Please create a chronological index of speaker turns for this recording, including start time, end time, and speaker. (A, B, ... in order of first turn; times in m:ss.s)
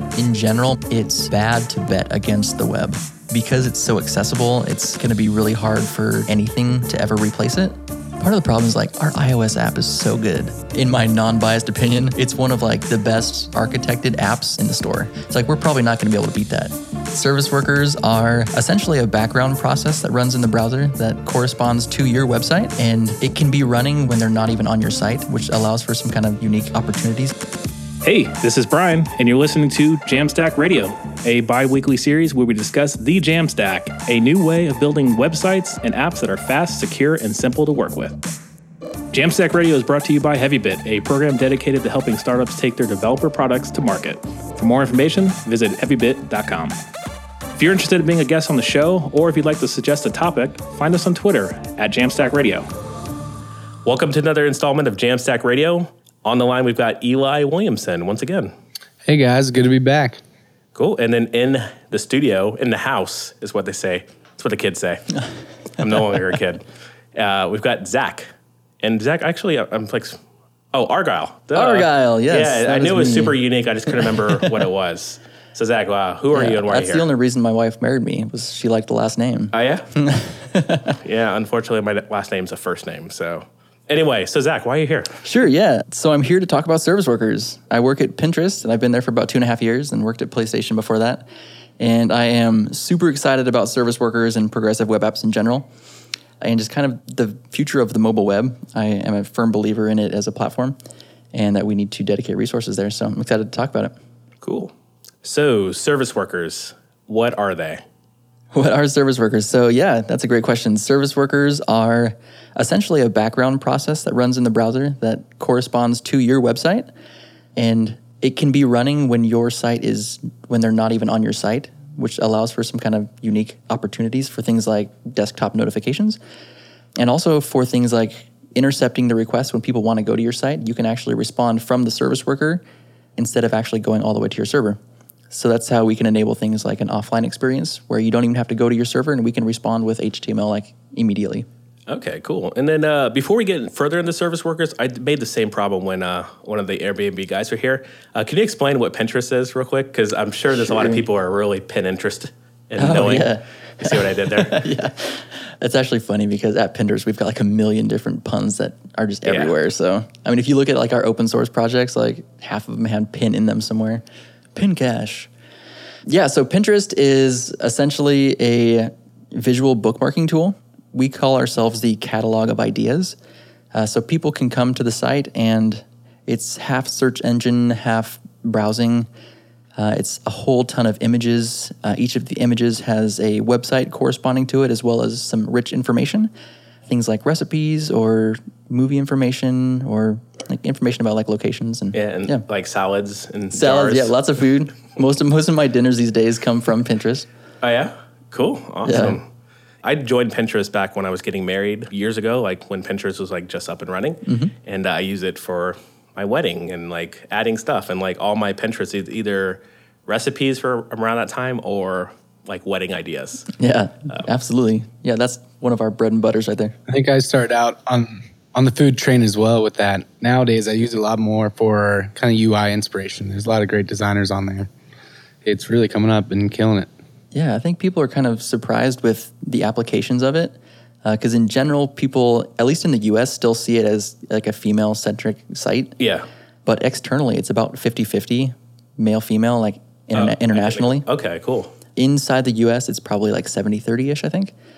0:00.2-0:27.3 A
0:28.0-0:38.2 B
0:39.1-0:46.8 B
0:47.6-0:52.7 B
0:53.8-0:58.5 B
0:59.1-1:00.2 C
1:00.8-1:05.1 B
1:05.8-1:06.6 B
1:07.2-1:08.3 B
1:08.8-1:10.2 B
1:10.7-1:17.1 B
1:11.5-1:13.4 A
1:13.9-1:14.5 A
1:16.3-1:21.0 A
1:19.5-1:19.9 B
1:21.0-1:25.2 B
1:25.2-1:31.3 A
1:31.8-1:35.7 A
1:36.4-1:40.8 A
1:41.3-1:43.9 A
1:44.4-1:44.7 B
1:45.2-1:47.8 B
1:48.5-1:56.9 A
1:57.6-2:06.2 A
2:07.0-2:12.6 A
2:13.2-2:14.8 A
2:15.3-2:21.5 A
2:21.9-2:34.7 B
2:30.5-2:31.0 A
2:32.8-2:44.0 A
2:39.3-2:39.5 B
2:44.6-2:45.3 A
2:46.1-2:53.2 A
2:53.7-2:59.1 A
2:59.8-3:06.3 A
3:06.9-3:12.4 A
3:11.9-3:14.1 B
3:13.5-3:17.3 A
3:17.6-3:19.3 B
3:18.8-3:19.2 A
3:19.8-3:33.5 B
3:24.2-3:24.5 A
3:33.6-3:36.8 A
3:36.9-3:44.7 C
3:45.4-3:46.9 C
3:47.3-3:56.0 A
3:56.0-3:56.3 B
3:56.7-4:01.0 A
4:00.2-4:01.7 B
4:02.0-4:04.5 A